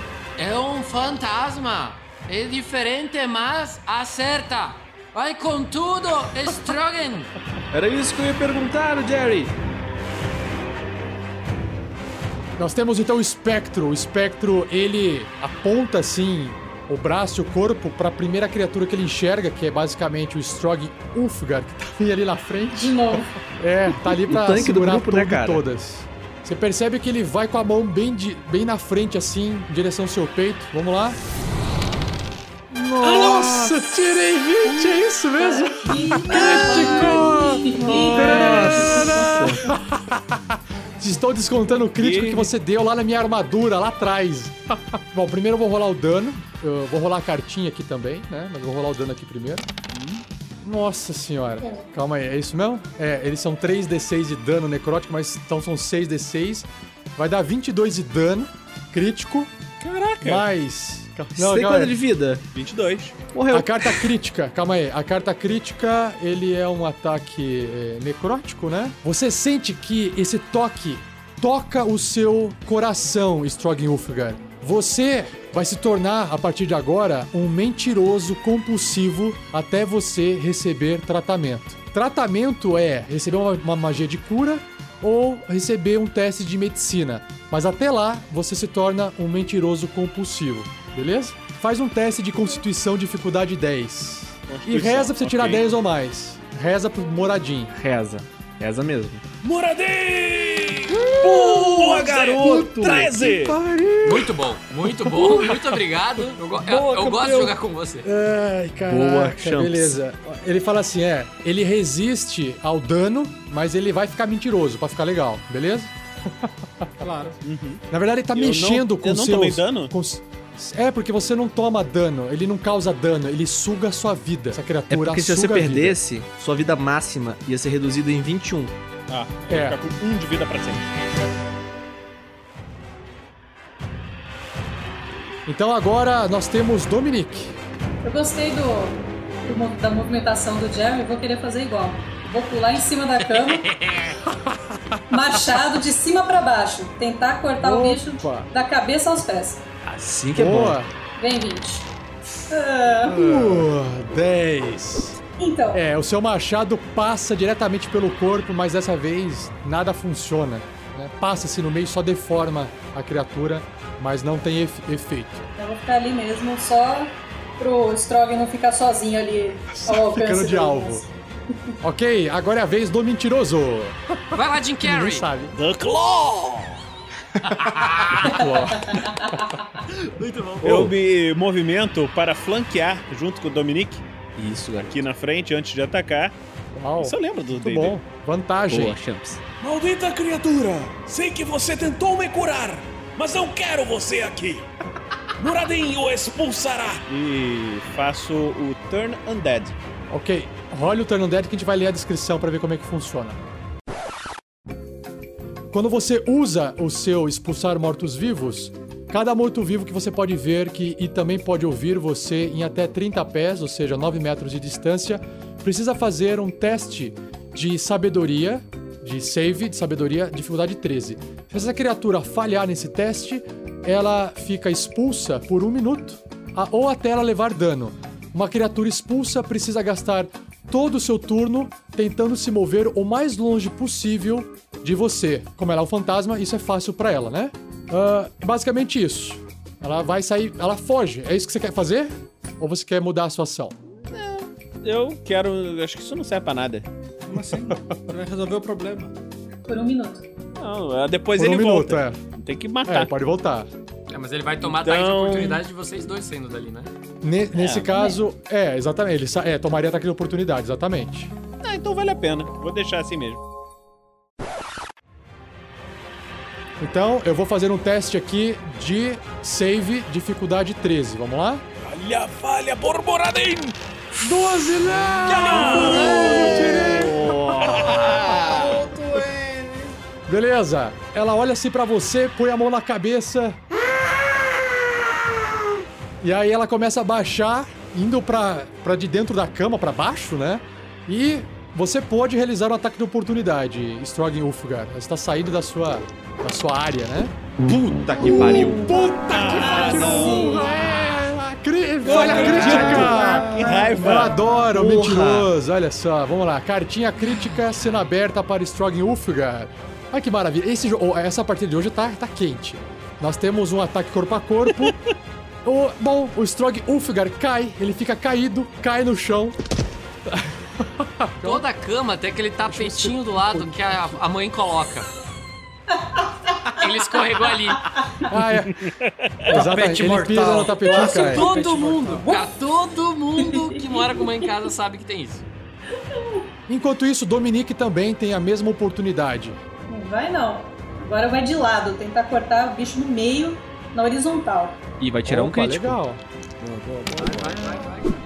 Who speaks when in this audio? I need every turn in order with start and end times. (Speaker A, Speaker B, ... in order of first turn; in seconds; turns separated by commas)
Speaker A: 0.4-7.3, Speaker B: 7.7-9.6, Speaker C: 12.6-22.9, Speaker D: 22.7-23.4, Speaker C: 23.5-31.2, Speaker B: 24.3-25.6, Speaker B: 32.7-34.0, Speaker C: 33.0-49.6, Speaker B: 34.6-35.0, Speaker D: 35.4-39.1, Speaker B: 36.2-39.6, Speaker E: 41.9-42.5, Speaker E: 49.9-50.2, Speaker C: 50.6-59.5, Speaker E: 59.8-60.5, Speaker C: 60.2-62.0, Speaker B: 61.4-62.4, Speaker E: 62.5-63.2, Speaker B: 63.3-64.0, Speaker C: 63.5-97.7, Speaker E: 94.5-95.7, Speaker B: 97.7-99.2, Speaker E: 99.4-103.6, Speaker C: 101.0-104.3, Speaker B: 102.1-103.2, Speaker A: 104.0-108.1, Speaker C: 105.1-105.8, Speaker C: 106.6-107.5, Speaker C: 108.0-116.5, Speaker B: 108.9-110.0, Speaker F: 117.0-117.3, Speaker E: 117.4-117.8, Speaker C: 117.9-126.0, Speaker E: 118.3-119.9, Speaker B: 124.9-128.8, Speaker E: 129.1-130.8, Speaker C: 129.5-129.8, Speaker C: 135.4-137.6, Speaker D: 138.0-143.7, Speaker A: 143.2-144.2, Speaker D: 145.1-149.6, Speaker C: 147.6-148.5, Speaker E: 149.9-150.6, Speaker B: 149.9-150.8, Speaker C: 150.3-150.9, Speaker D: 151.2-151.9, Speaker D: 152.5-153.3, Speaker C: 153.1-155.2, Speaker D: 155.4-155.8, Speaker C: 155.7-165.4, Speaker D: 165.6-171.1, Speaker C: 169.7-171.1, Speaker C: 171.8-174.0, Speaker A: 174.3-175.3, Speaker C: 174.8-175.6, Speaker E: 175.6-176.8, Speaker C: 177.5-179.6, Speaker A: 177.6-178.2, Speaker E: 178.0-178.3, Speaker D: 178.4-179.6, Speaker A: 180.2-180.9, Speaker E: 180.6-184.1, Speaker B: 184.3-185.0, Speaker E: 184.8-186.3, Speaker C: 186.7-189.0, Speaker E: 187.0-188.0, Speaker B: 188.7-189.4, Speaker E: 189.6-194.7, Speaker E: 195.4-199.7, Speaker C: 200.1-203.4, Speaker C: 205.7-243.8, Speaker E: 244.1-246.9, Speaker F: 247.3-249.2, Speaker D: 249.7-250.3, Speaker E: 250.6-253.1, Speaker C: 251.3-252.2, Speaker C: 252.8-253.7, Speaker A: 254.1-256.9, Speaker E: 254.8-255.6, Speaker C: 257.2-261.3, Speaker E: 257.5-257.9, Speaker E: 261.6-263.4, Speaker C: 266.8-271.6, Speaker E: 271.8-273.8, Speaker C: 274.2-277.8, Speaker E: 275.2-278.8, Speaker F: 275.4-277.1, Speaker F: 277.7-279.9, Speaker C: 280.3-283.6, Speaker C: 286.2-297.4, Speaker B: 297.6-298.8, Speaker E: 297.7-300.4, Speaker C: 298.2-315.0, Speaker D: 299.7-300.6, Speaker E: 302.0-304.4, Speaker F: 302.1-303.9, Speaker B: 302.5-303.1, Speaker B: 304.7-305.5, Speaker C: 315.6-319.6, Speaker C: 320.3-321.6, Speaker A: 321.4-325.1, Speaker C: 322.7-323.7, Speaker D: 326.0-327.1, Speaker A: 326.8-328.0, Speaker D: 327.9-328.2, Speaker C: 328.3-328.9, Speaker E: 328.8-329.5, Speaker C: 329.4-331.5, Speaker F: 329.5-332.4, Speaker A: 330.9-335.4, Speaker D: 332.2-332.5, Speaker D: 333.4-334.4, Speaker D: 335.9-336.5, Speaker C: 336.7-339.6, Speaker D: 339.9-344.8, Speaker B: 345.0-346.0, Speaker C: 345.3-346.2, Speaker B: 346.6-347.6, Speaker A: 347.2-348.1